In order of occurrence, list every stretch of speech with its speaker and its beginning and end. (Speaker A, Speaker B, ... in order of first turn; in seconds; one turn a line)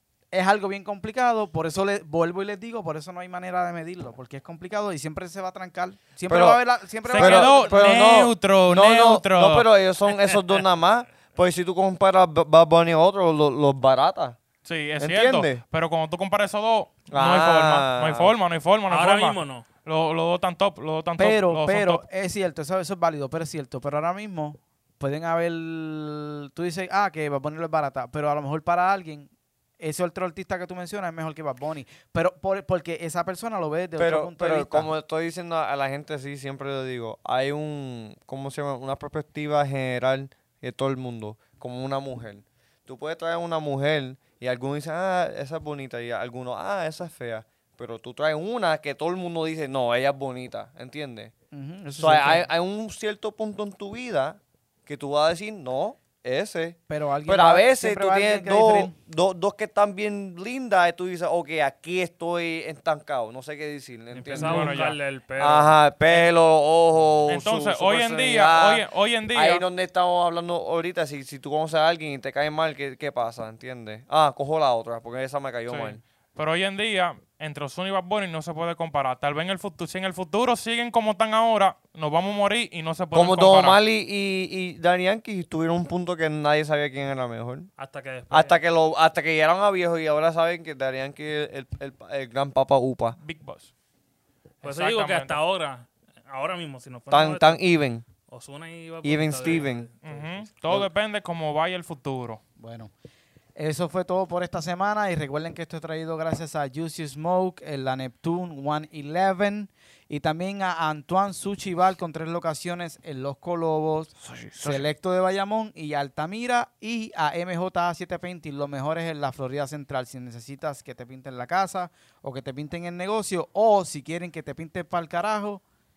Speaker A: 0.3-7.8
Speaker B: 6.3-6.6
Speaker C: 7.1-9.7
Speaker B: 7.1-14.4
Speaker C: 14.6-22.0
Speaker B: 15.0-15.6
Speaker B: 17.1-18.3
Speaker D: 18.9-19.6
Speaker A: 21.2-34.9
Speaker B: 34.0-51.3
Speaker A: 51.5-52.5
Speaker B: 52.0-64.8
Speaker A: 56.9-58.9
Speaker D: 64.1-66.2
Speaker C: 64.3-65.0
Speaker B: 65.4-76.0
Speaker C: 67.3-69.6
Speaker C: 75.7-83.8
Speaker B: 83.1-87.7
Speaker D: 87.8-88.6
Speaker B: 88.3-93.2
Speaker C: 93.2-93.7
Speaker C: 94.6-95.4
Speaker D: 94.6-97.6
Speaker B: 97.1-98.0
Speaker D: 98.3-100.5
Speaker B: 99.0-99.9
Speaker C: 100.0-102.4
Speaker A: 102.6-102.9
Speaker A: 103.5-125.6
Speaker B: 114.2-114.8